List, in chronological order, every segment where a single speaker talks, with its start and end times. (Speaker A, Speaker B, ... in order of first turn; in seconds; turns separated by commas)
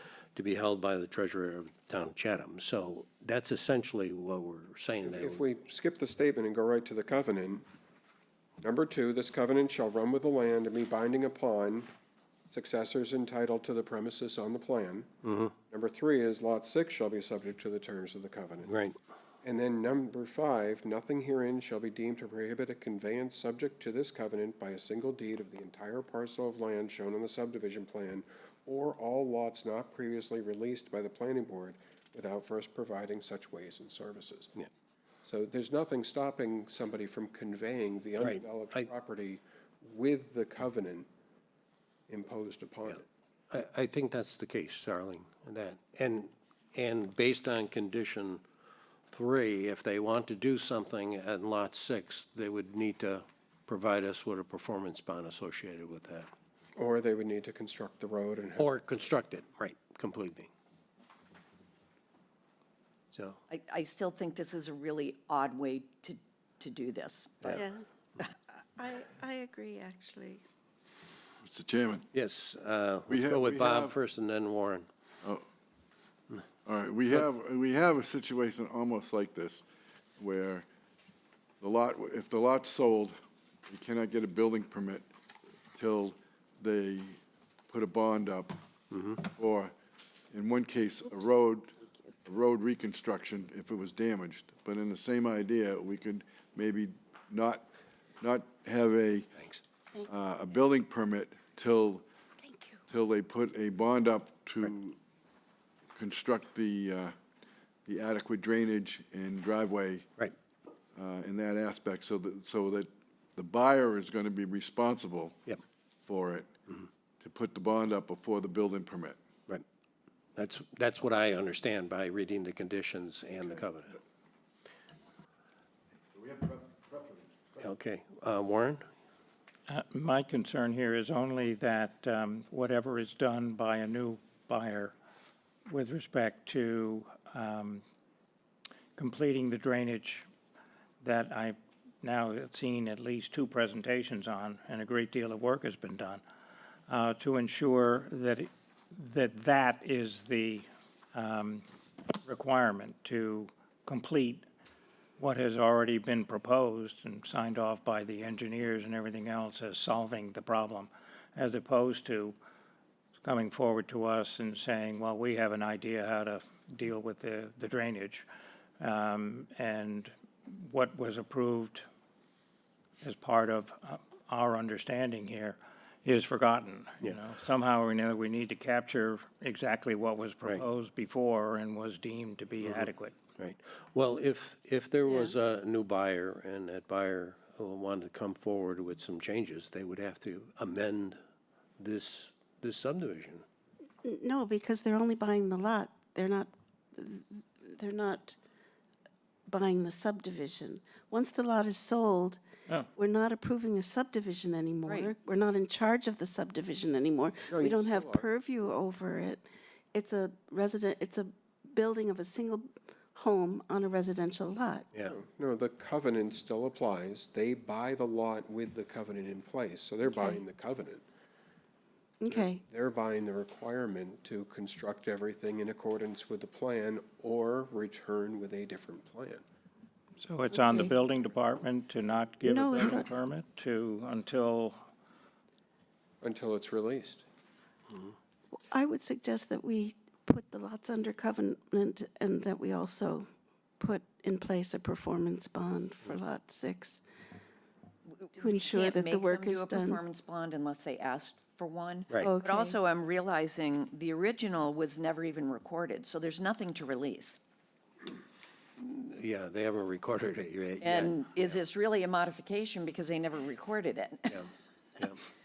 Speaker A: 0.3-5.4, Speaker B: 5.0-7.6, Speaker B: 8.6-11.9, Speaker B: 12.5-15.1, Speaker A: 15.2-15.5, Speaker B: 15.7-18.7, Speaker A: 18.7-19.0, Speaker B: 19.4-34.5, Speaker B: 35.2-41.1, Speaker A: 38.2-38.9, Speaker B: 42.1-43.0, Speaker A: 43.5-48.4, Speaker A: 49.1-56.3, Speaker B: 56.8-58.7, Speaker A: 58.6-60.5, Speaker A: 63.1-63.4, Speaker C: 63.5-67.6, Speaker D: 67.5-67.8, Speaker D: 68.8-70.4, Speaker E: 71.4-72.1, Speaker A: 72.1-74.9, Speaker E: 73.1-74.0, Speaker E: 76.7-79.7, Speaker E: 80.2-80.7, Speaker E: 81.6-85.1, Speaker E: 85.8-87.2, Speaker E: 87.7-88.6, Speaker A: 88.9-89.2, Speaker E: 89.4-89.7, Speaker E: 90.3-97.7, Speaker E: 98.2-99.3, Speaker E: 100.1-102.0, Speaker D: 102.5-102.8, Speaker E: 102.9-105.0, Speaker E: 106.0-107.2, Speaker E: 107.9-110.1, Speaker E: 111.0-115.4, Speaker E: 116.0-116.5, Speaker E: 117.2-119.2, Speaker A: 120.4-124.0, Speaker E: 126.2-127.3, Speaker A: 127.6-128.9, Speaker F: 129.7-134.9, Speaker F: 135.7-137.8, Speaker F: 139.0-140.3, Speaker F: 141.0-146.2, Speaker F: 146.9-151.7, Speaker F: 152.2-154.4, Speaker F: 155.2-162.4, Speaker F: 163.2-168.3, Speaker F: 168.8-171.8, Speaker F: 173.0-183.2, Speaker A: 183.4-191.2, Speaker D: 185.1-185.3, Speaker A: 191.8-193.4, Speaker D: 194.0-198.4, Speaker D: 199.5-202.4, Speaker D: 202.9-214.9, Speaker C: 204.9-205.1, Speaker B: 207.5-208.3, Speaker B: 215.1-221.0, Speaker D: 220.1-220.4, Speaker D: 222.2-222.6, Speaker B: 222.3-229.4, Speaker F: 230.2-234.8, Speaker D: 230.5-230.9, Speaker D: 232.4-233.1, Speaker B: 236.2-237.2, Speaker D: 238.7-243.3, Speaker D: 243.8-247.0, Speaker C: 248.2-257.4, Speaker D: 248.4-250.0, Speaker D: 252.2-252.8, Speaker A: 258.8-261.2, Speaker C: 260.8-264.4, Speaker A: 264.3-265.2